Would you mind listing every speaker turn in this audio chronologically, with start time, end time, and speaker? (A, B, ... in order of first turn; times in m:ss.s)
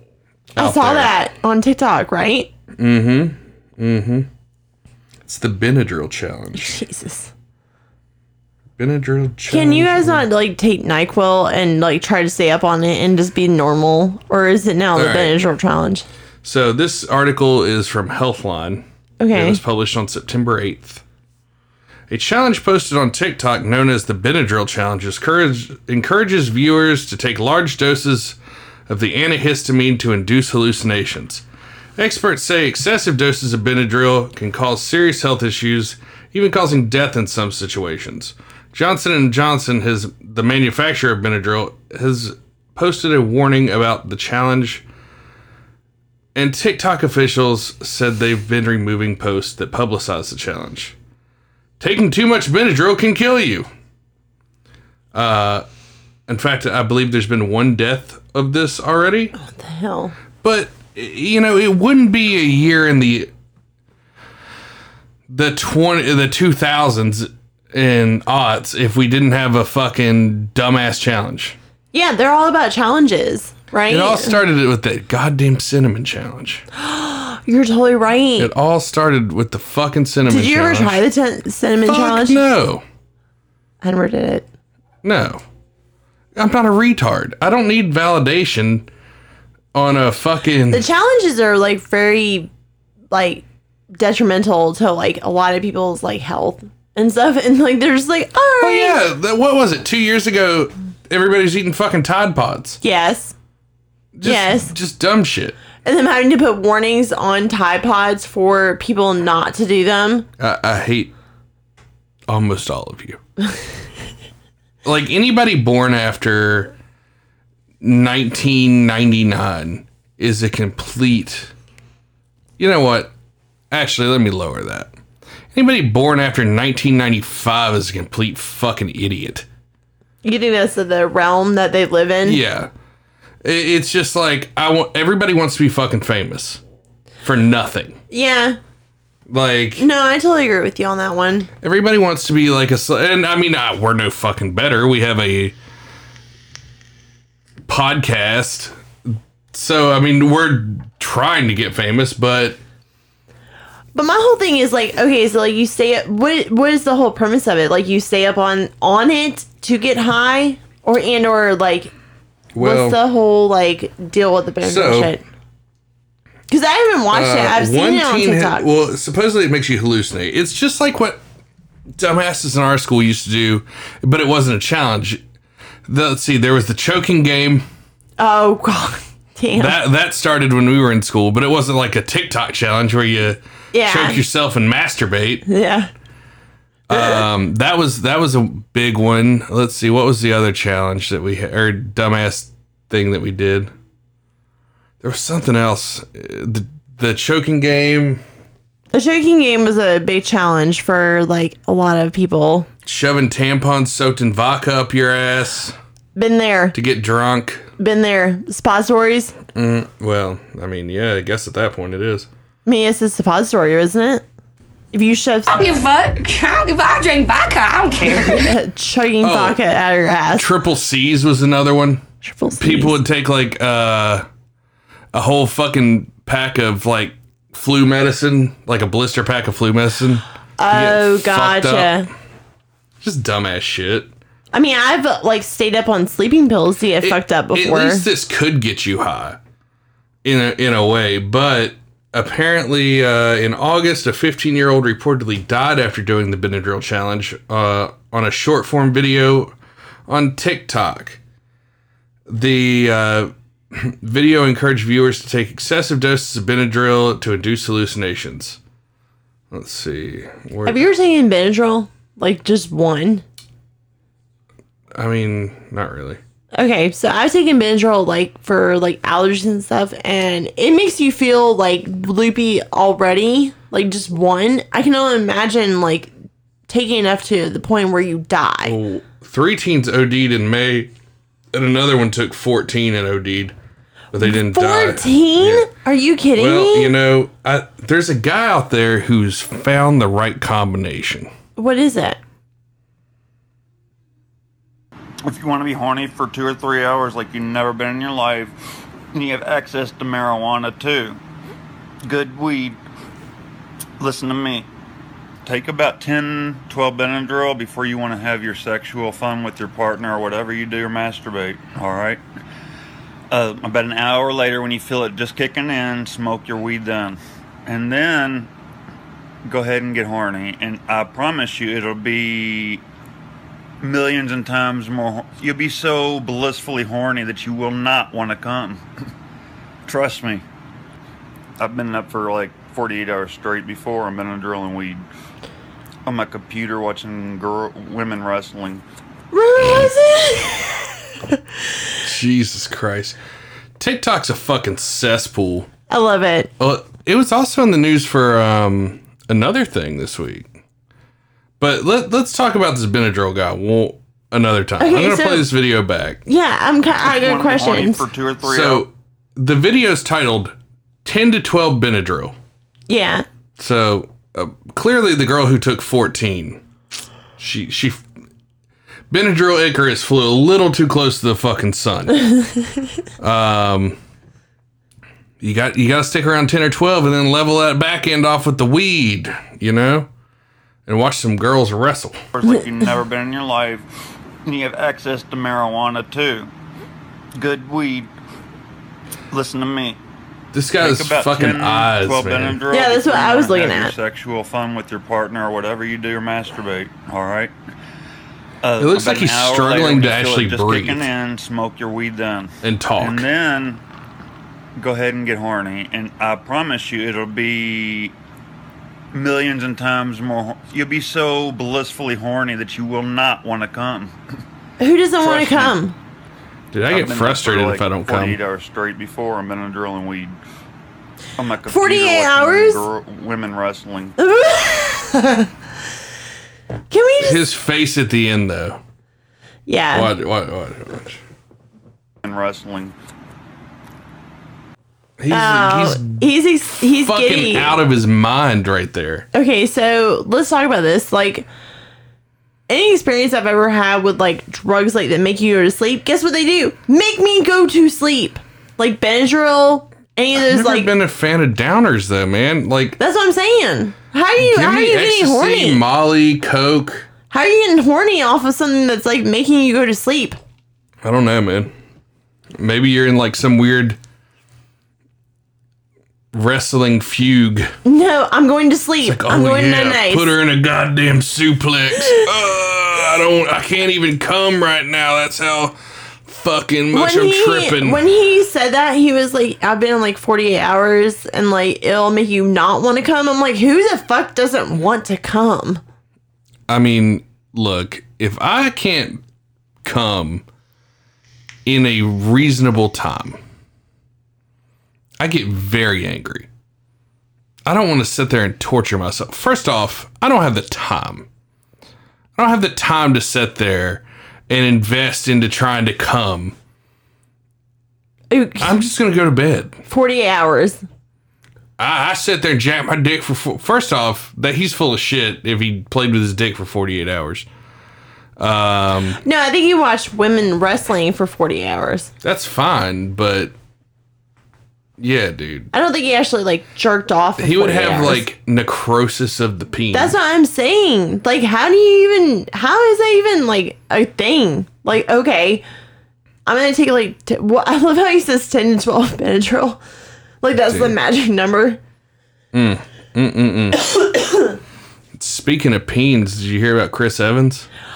0:00.6-0:01.1 A
0:00.6-0:02.5 B
0:02.8-0:04.3 A
0:05.2-0:06.8 A
0:06.5-0:07.3 B
0:08.8-0:10.2 A
0:09.5-0:16.0 B
0:14.9-0:15.3 A
0:16.4-0:21.0 A
0:19.2-0:19.6 B
0:22.1-0:28.4 A
0:28.9-0:31.4 A
0:32.0-0:44.8 A
0:46.3-0:50.9 A
0:51.8-0:53.7 A
0:55.1-0:55.6 A
0:56.3-0:59.3 A
0:59.4-1:00.2 B
1:00.4-1:03.3 A
1:05.3-1:11.6 A
1:11.9-1:14.4 B
1:13.9-1:16.6 A
1:16.7-1:18.5 B
1:18.4-1:21.0 A
1:20.3-1:22.4 B
1:21.8-1:22.8 A
1:23.8-1:24.5 B
1:25.0-1:25.4 A
1:26.4-1:28.9 A
1:29.7-1:30.8 A
1:30.7-1:32.5 B
1:33.1-1:39.0 B
1:38.6-1:42.8 A
1:42.8-1:43.3 B
1:44.1-1:45.6 A
1:44.2-1:44.7 B
1:45.8-1:50.3 B
1:50.4-1:51.1 A
1:52.3-1:53.2 A
1:54.8-1:56.7 A
1:57.8-2:01.5 A
2:02.6-2:03.1 A
2:03.7-2:04.9 A
2:05.5-2:09.4 A
2:10.2-2:12.4 B
2:12.2-2:12.7 A
2:13.4-2:16.6 A
2:17.2-2:18.0 A
2:18.1-2:18.6 B
2:19.3-2:19.8 A
2:19.8-2:21.5 B
2:21.6-2:25.5 A
2:27.6-2:32.6 A
2:33.9-2:41.9 B
2:42.5-2:43.0 A
2:42.6-2:45.2 B
2:44.6-2:45.2 A
2:46.5-2:48.6 B
2:47.1-2:51.2 A
2:52.0-2:55.2 A
2:55.8-2:57.6 A
2:58.2-2:59.8 B
2:59.6-3:05.4 A
3:03.7-3:04.2 B
3:05.5-3:05.9 B
3:06.9-3:13.7 A
3:06.9-3:07.2 B
3:15.0-3:18.2 A
3:18.9-3:22.7 B
3:22.8-3:25.8 A
3:26.2-3:26.7 B
3:26.7-3:27.6 A
3:27.8-3:29.4 B
3:29.5-3:32.3 A
3:32.6-3:34.2 B
3:34.9-3:35.7 B
3:35.5-3:38.5 C
3:38.0-3:40.5 B
3:39.2-3:39.6 A
3:40.4-3:42.0 A
3:42.2-3:43.0 B
3:42.6-3:44.2 A
3:45.1-3:52.0 A
3:50.6-3:52.1 B
3:53.0-3:54.1 A
3:54.5-3:58.1 B
3:57.0-3:59.4 A
4:00.2-4:09.5 A
4:10.1-4:11.2 A
4:12.3-4:18.6 A
4:19.5-4:20.8 A
4:20.6-4:23.2 B
4:24.9-4:26.2 A
4:26.5-4:36.1 B
4:36.7-4:38.8 B
4:38.6-4:40.9 A
4:41.5-4:43.5 A
4:44.1-4:45.7 A
4:44.2-4:46.9 B
4:46.4-4:51.3 A
4:51.6-4:52.2 B
4:55.2-4:58.5 D
4:59.1-5:01.2 D
5:02.0-5:02.8 D
5:04.0-5:04.7 D
5:05.4-5:12.2 D
5:13.3-5:18.5 D
5:19.4-5:22.8 D
5:23.8-5:28.8 D
5:29.9-5:30.4 D
5:31.6-5:35.0 D
5:36.0-5:38.8 D
5:39.3-5:40.9 B
5:42.0-5:43.2 A
5:43.8-5:45.7 A
5:45.9-5:46.5 B
5:46.6-5:50.5 A
5:51.6-5:56.2 A
5:54.8-5:55.5 B
5:56.2-5:58.0 B
5:57.0-5:58.8 D
5:58.4-6:02.3 A
6:02.9-6:03.2 B
6:03.6-6:06.6 A
6:07.4-6:08.0 A
6:09.1-6:12.2 A
6:13.2-6:14.0 A
6:15.4-6:20.1 A
6:20.9-6:22.2 A
6:22.3-6:23.8 D
6:24.4-6:26.5 D
6:27.4-6:28.1 D
6:29.3-6:30.0 D
6:30.5-6:32.6 A
6:30.8-6:37.5 D
6:32.7-6:33.9 B
6:38.6-6:43.8 D
6:38.8-6:41.1 A
6:42.6-6:43.2 A
6:44.8-6:48.1 D
6:49.1-6:54.1 D
6:54.8-6:55.9 B
6:55.2-6:55.8 D
6:56.7-6:58.4 A
6:56.9-7:00.4 D
7:01.4-7:04.2 D
7:01.7-7:02.8 B
7:04.2-7:05.5 B
7:06.9-7:07.4 B
7:07.2-7:08.8 A
7:09.7-7:10.1 B
7:09.9-7:11.2 A
7:12.2-7:12.9 D
7:15.2-7:16.2 A
7:15.3-7:17.8 B
7:16.9-7:19.3 A
7:19.3-7:21.5 B
7:22.7-7:30.9 B
7:30.3-7:33.0 A
7:33.0-7:35.8 B
7:34.4-7:37.1 A
7:37.3-7:40.4 B
7:41.0-7:41.7 A
7:42.6-7:44.0 A
7:46.3-7:47.7 A
7:47.8-7:50.3 B
7:49.0-7:58.0 A
7:56.9-8:05.8 B
8:06.7-8:09.2 A
8:09.8-8:10.4 A
8:11.6-8:13.4 A
8:15.2-8:16.5 A
8:17.6-8:21.2 A
8:22.4-8:26.6 A
8:28.3-8:28.8 B
8:28.6-8:29.8 A
8:29.9-8:30.8 B
8:31.8-8:37.5 A
8:38.4-8:39.2 A
8:39.2-8:42.1 B
8:42.2-8:43.5 A
8:45.0-8:45.7 A
8:45.7-8:48.2 B
8:47.4-8:50.1 A
8:49.9-8:55.6 B
8:56.4-8:59.8 B
9:00.4-9:01.8 B
9:00.6-9:01.0 A
9:02.5-9:03.8 A
9:04.1-9:04.5 B
9:05.2-9:07.7 A